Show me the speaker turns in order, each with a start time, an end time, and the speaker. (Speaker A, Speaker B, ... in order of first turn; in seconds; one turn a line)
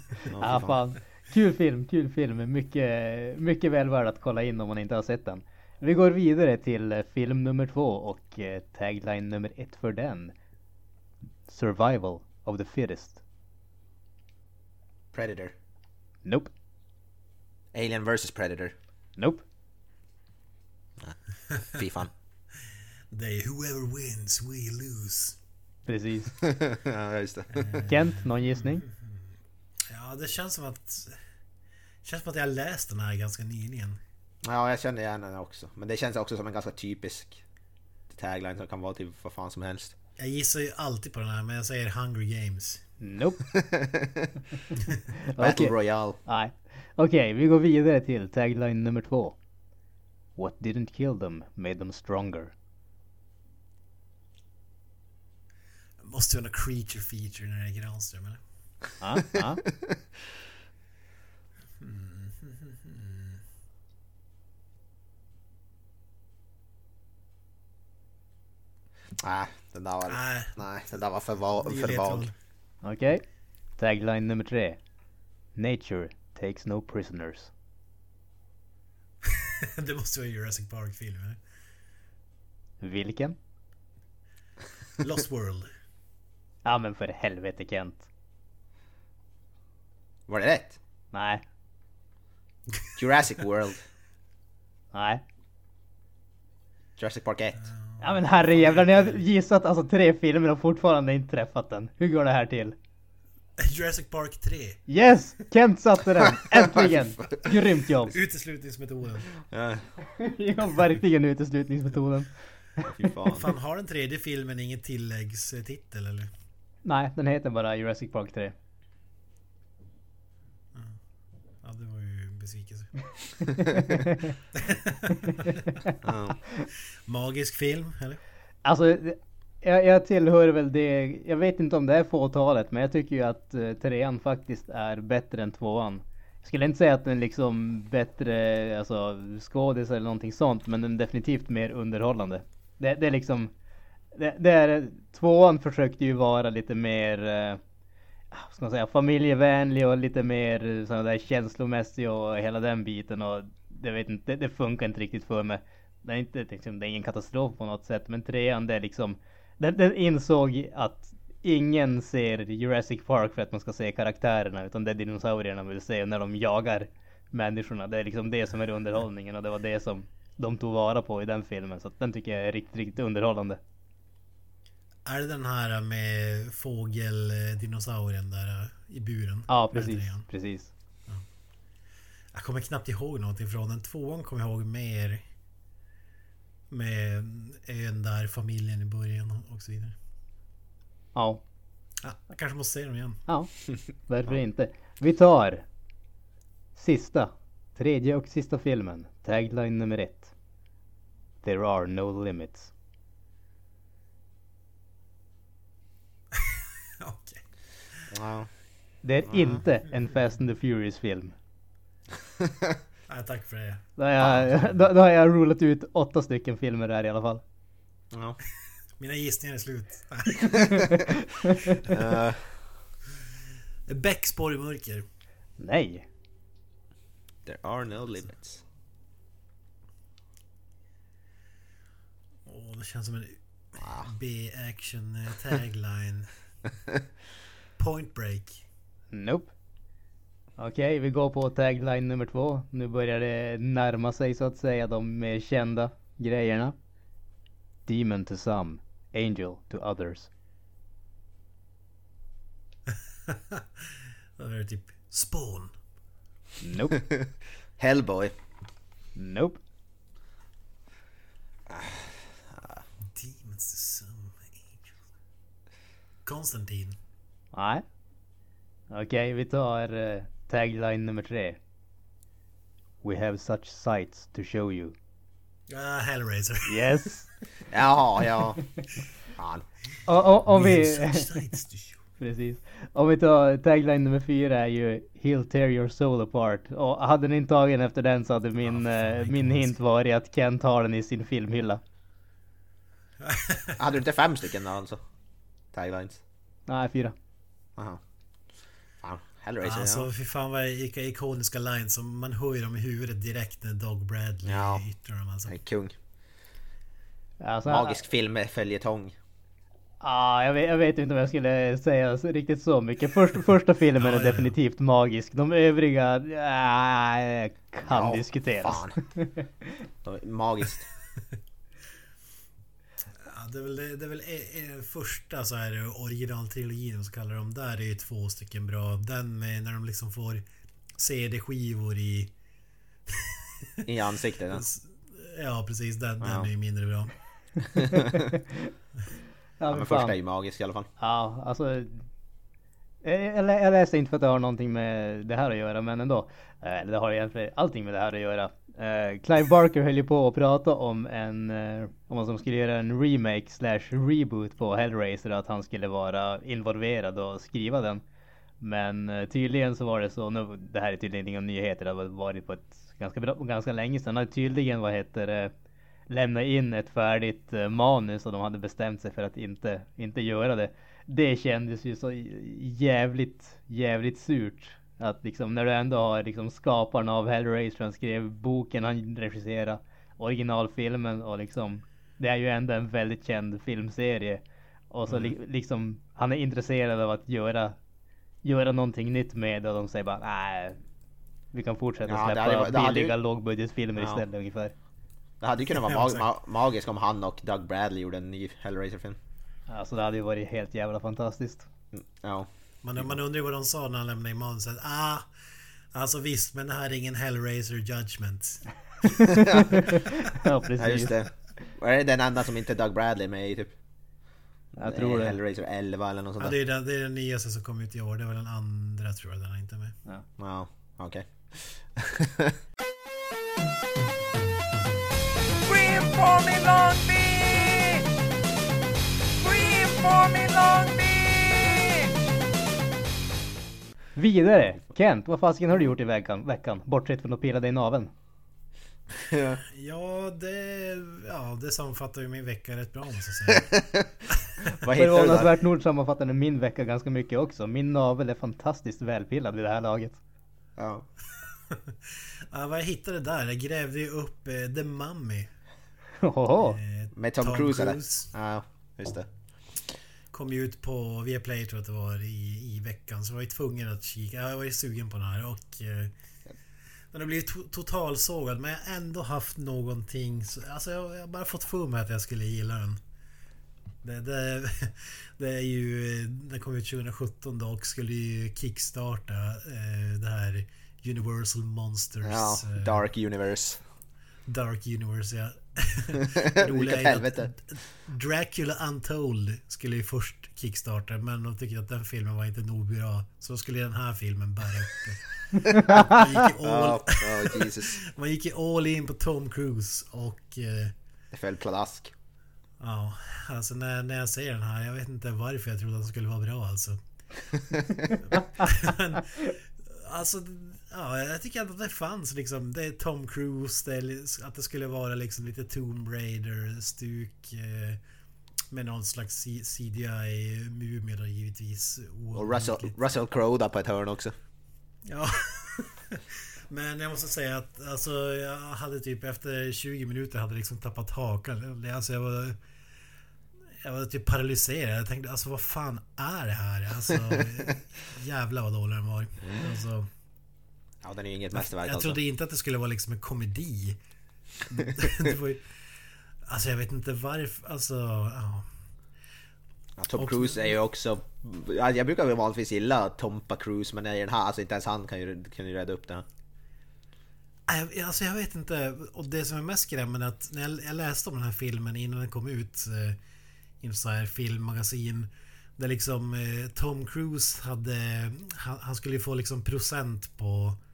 Speaker A: 0.3-0.8
Speaker B: 0.4-10.3
Speaker B: 11.5-13.2
Speaker A: 15.1-15.5
Speaker B: 16.2-16.5
Speaker A: 17.7-18.7
Speaker B: 19.2-19.4
Speaker A: 21.7-22.1
Speaker C: 23.1-25.4
Speaker B: 25.9-26.3
Speaker A: 26.4-27.8
Speaker C: 27.5-29.3
Speaker B: 27.9-28.8
Speaker C: 29.9-31.2
Speaker C: 32.0-34.0
Speaker A: 34.4-37.4
Speaker A: 38.1-39.9
Speaker C: 40.2-42.9
Speaker B: 43.0-43.4
Speaker A: 43.5-44.4
Speaker B: 45.2-49.4
Speaker A: 45.4-46.2
Speaker B: 50.4-52.5
Speaker C: 56.0-58.4
Speaker B: 59.0-59.6
Speaker C: 61.8-63.4
Speaker A: 69.2-72.3
Speaker C: 70.1-70.6
Speaker C: 71.6-72.3
Speaker B: 72.8-73.2
Speaker B: 73.8-74.8
Speaker B: 75.5-77.5
Speaker C: 79.2-81.4
Speaker B: 82.8-83.4
Speaker C: 85.0-85.7
Speaker B: 86.6-88.1
Speaker A: 90.3-90.8
Speaker B: 91.1-91.4
Speaker A: 93.0-93.8
Speaker B: 94.9-95.2
Speaker A: 97.0-97.6
Speaker C: 97.6-99.2
Speaker B: 98.0-102.7
Speaker C: 103.6-104.8
Speaker B: 104.9-108.1
Speaker A: 106.5-107.4
Speaker C: 108.1-109.3
Speaker A: 109.4-109.9
Speaker B: 110.2-112.8
Speaker A: 112.8-113.4
Speaker C: 113.3-116.3
Speaker B: 116.8-118.5
Speaker C: 121.6-123.7
Speaker B: 124.0-124.3
Speaker C: 124.5-125.5
Speaker A: 126.0-126.4
Speaker C: 126.6-128.2
Speaker B: 128.6-143.5
Speaker B: 144.1-147.6
Speaker B: 148.3-173.6
Speaker C: 175.1-180.3
Speaker B: 179.5-180.7
Speaker C: 182.3-185.2
Speaker C: 186.7-189.9
Speaker B: 191.1-191.4
Speaker C: 192.0-193.2
Speaker B: 193.3-193.5
Speaker B: 194.1-195.6
Speaker B: 196.8-200.3
Speaker B: 201.4-202.7
Speaker C: 206.3-207.4
Speaker A: 208.1-208.5
Speaker B: 209.0-211.3
Speaker A: 209.3-209.6
Speaker A: 212.4-212.8
Speaker C: 213.1-213.9
Speaker B: 214.0-217.4
Speaker A: 214.2-214.4
Speaker A: 218.1-218.4
Speaker C: 219.0-221.0
Speaker B: 221.4-221.8
Speaker A: 221.9-222.7
Speaker C: 223.8-225.0
Speaker B: 225.6-226.1
Speaker A: 227.4-228.6
Speaker C: 232.4-236.3
Speaker A: 233.8-234.1
Speaker C: 237.8-238.6
Speaker B: 239.1-239.5
Speaker B: 240.6-246.7
Speaker B: 247.9-250.3
Speaker C: 253.3-255.7
Speaker B: 256.6-256.9
Speaker A: 256.9-258.3
Speaker B: 259.1-259.6
Speaker A: 261.7-262.8
Speaker C: 263.1-264.9
Speaker C: 266.2-267.0
Speaker B: 267.5-267.8
Speaker B: 268.9-271.6
Speaker B: 273.0-274.9
Speaker C: 275.7-276.8
Speaker B: 276.6-277.3
Speaker A: 277.7-278.6
Speaker A: 279.4-279.6
Speaker B: 280.1-281.5
Speaker C: 280.5-282.0
Speaker B: 282.2-291.8
Speaker C: 288.6-289.7
Speaker C: 293.2-293.8
Speaker A: 293.8-295.0
Speaker A: 295.7-296.2
Speaker B: 296.7-297.1
Speaker A: 299.0-300.1
Speaker C: 299.6-305.5
Speaker A: 304.4-304.8
Speaker A: 305.5-305.9
Speaker B: 307.4-308.0
Speaker A: 307.7-309.1
Speaker B: 310.0-319.4
Speaker C: 314.0-314.5
Speaker A: 317.9-318.9
Speaker A: 320.0-320.9
Speaker C: 323.2-330.4
Speaker C: 331.0-332.3
Speaker C: 333.1-333.5
Speaker A: 333.8-334.6
Speaker C: 334.5-337.1
Speaker A: 336.2-336.5
Speaker A: 337.7-338.3
Speaker B: 337.9-338.6
Speaker B: 339.6-340.1
Speaker A: 339.7-340.9
Speaker B: 341.0-342.0
Speaker B: 343.0-358.0
Speaker B: 358.6-365.5
Speaker B: 366.1-384.4
Speaker B: 384.9-387.8
Speaker B: 388.4-390.8
Speaker B: 391.5-394.7
Speaker A: 392.1-393.1
Speaker A: 394.0-394.2
Speaker A: 395.4-399.2
Speaker C: 395.8-396.2
Speaker B: 399.7-401.7
Speaker A: 401.9-402.5
Speaker C: 402.8-405.3
Speaker C: 405.9-409.9
Speaker B: 409.5-411.1
Speaker A: 410.8-413.7
Speaker B: 414.8-415.4
Speaker A: 414.8-416.6
Speaker C: 416.4-419.9
Speaker A: 420.4-422.5
Speaker D: 425.6-428.1
Speaker D: 429.4-432.1
Speaker B: 434.1-438.1
Speaker A: 439.1-439.6
Speaker C: 439.7-443.8
Speaker A: 443.5-444.1
Speaker A: 444.8-445.5
Speaker B: 444.9-450.2
Speaker A: 450.8-451.1
Speaker C: 451.7-455.5
Speaker B: 456.2-456.8
Speaker C: 456.6-458.3
Speaker A: 457.1-459.3
Speaker C: 460.3-466.1
Speaker C: 467.1-473.0
Speaker C: 474.0-483.0
Speaker A: 482.2-483.8
Speaker C: 484.5-500.9
Speaker A: 486.3-487.5
Speaker A: 496.6-498.0
Speaker A: 501.3-502.1
Speaker C: 502.8-507.0
Speaker C: 508.3-518.0
Speaker C: 518.7-522.9
Speaker A: 522.3-524.3
Speaker C: 525.1-532.6
Speaker C: 533.8-540.1
Speaker A: 541.0-542.2
Speaker C: 541.5-544.0
Speaker C: 544.7-545.8
Speaker C: 546.4-548.7
Speaker A: 550.0-556.2
Speaker C: 550.1-550.7
Speaker C: 557.7-563.2
Speaker C: 563.8-570.8